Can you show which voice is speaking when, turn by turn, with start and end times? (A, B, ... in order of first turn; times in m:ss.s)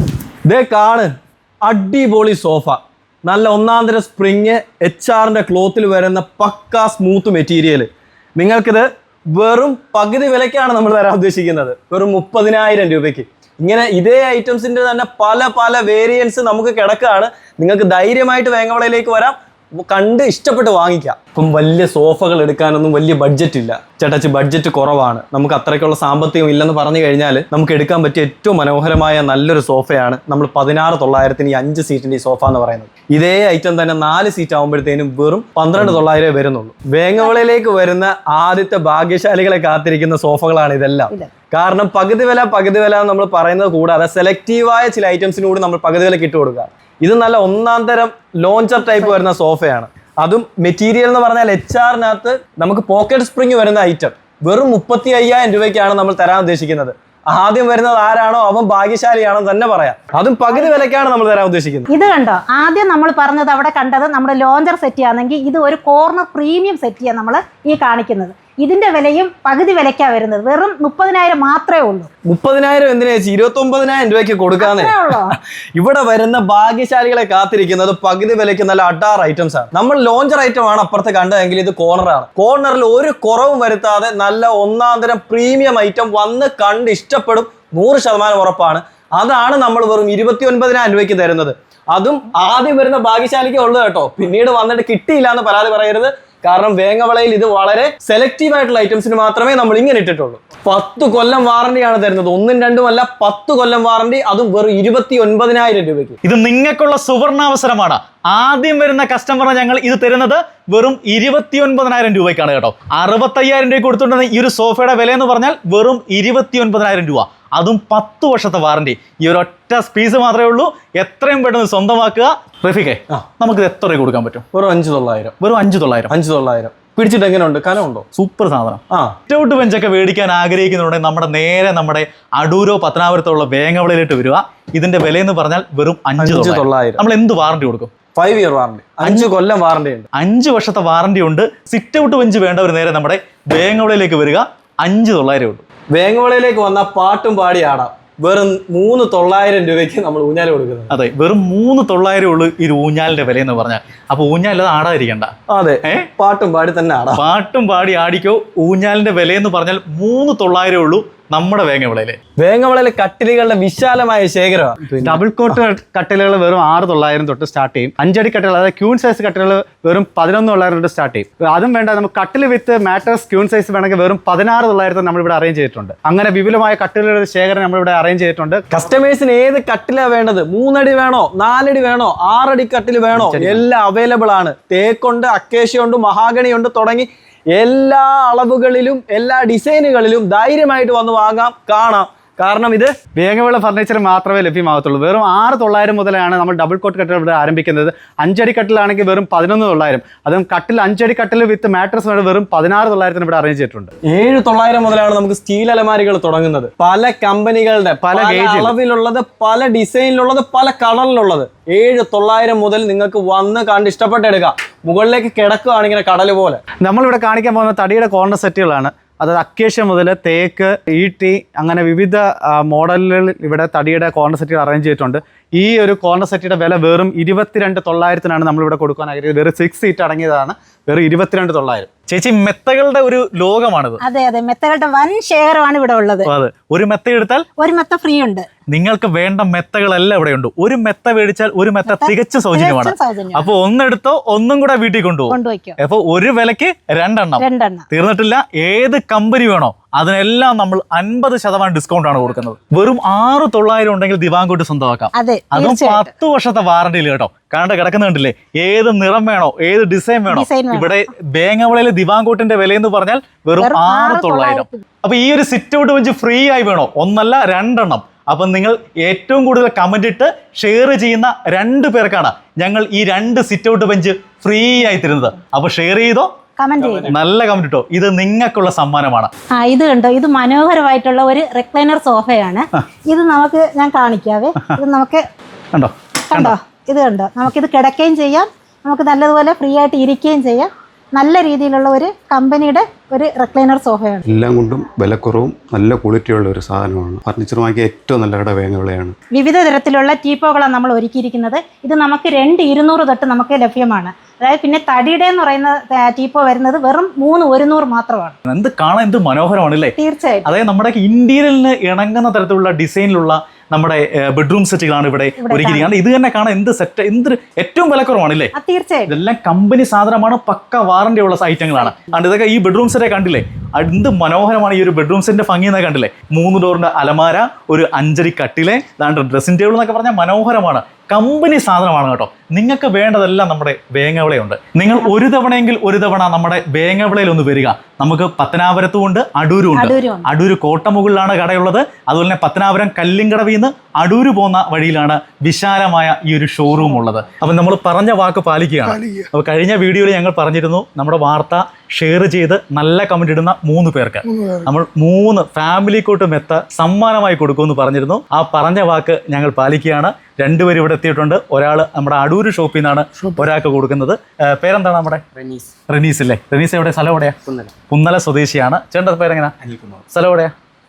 0:00.5-0:01.1 A
0:01.6-1:01.9 A
0:48.8-0:49.2 B
1:00.5-1:00.8 B
1:01.9-1:12.1 B
1:12.3-1:46.2 A
1:14.6-1:15.4 B
1:46.2-2:04.4 C
2:04.5-2:05.4 A
2:05.4-2:06.1 C
2:06.1-2:08.1 A
2:08.2-2:17.9 C
2:16.2-2:17.0 A
2:18.2-2:20.1 A
2:19.0-2:19.3 C
2:20.1-2:25.6 C
2:25.9-2:30.9 A
2:30.9-2:35.3 C
2:35.5-2:37.2 A
2:35.8-2:36.1 C
2:37.2-2:42.2 C
2:42.4-2:45.6 A
2:45.0-2:58.6 D
2:58.7-3:13.0 A
3:03.1-3:03.6 D
3:13.2-3:23.9 D
3:24.1-3:36.6 A
3:28.0-3:28.8 D
3:36.8-3:51.9 D
3:52.1-3:54.0 C
3:54.0-3:56.3 B
3:56.3-3:57.5 C
3:57.6-3:58.5 B
3:58.7-4:36.3 C
4:01.8-4:03.5 B
4:05.3-4:05.8 B
4:07.4-4:07.9 B
4:15.2-4:16.1 B
4:20.3-4:21.0 B
4:23.6-4:24.8 B
4:36.6-4:37.1 B
4:37.1-4:39.3 C
4:39.6-4:45.3 B
4:45.7-4:46.6 C
4:46.3-4:54.3 B
4:54.2-4:59.2 E
4:59.3-5:08.4 B
5:08.5-5:09.9 C
5:10.0-5:10.5 B
5:10.4-5:18.5 C
5:15.4-5:15.9 B
5:18.6-5:19.2 B
5:19.1-6:05.2 C
5:21.8-5:22.2 B
5:39.7-5:40.3 B
6:05.9-6:09.6 C
6:10.1-6:10.5 C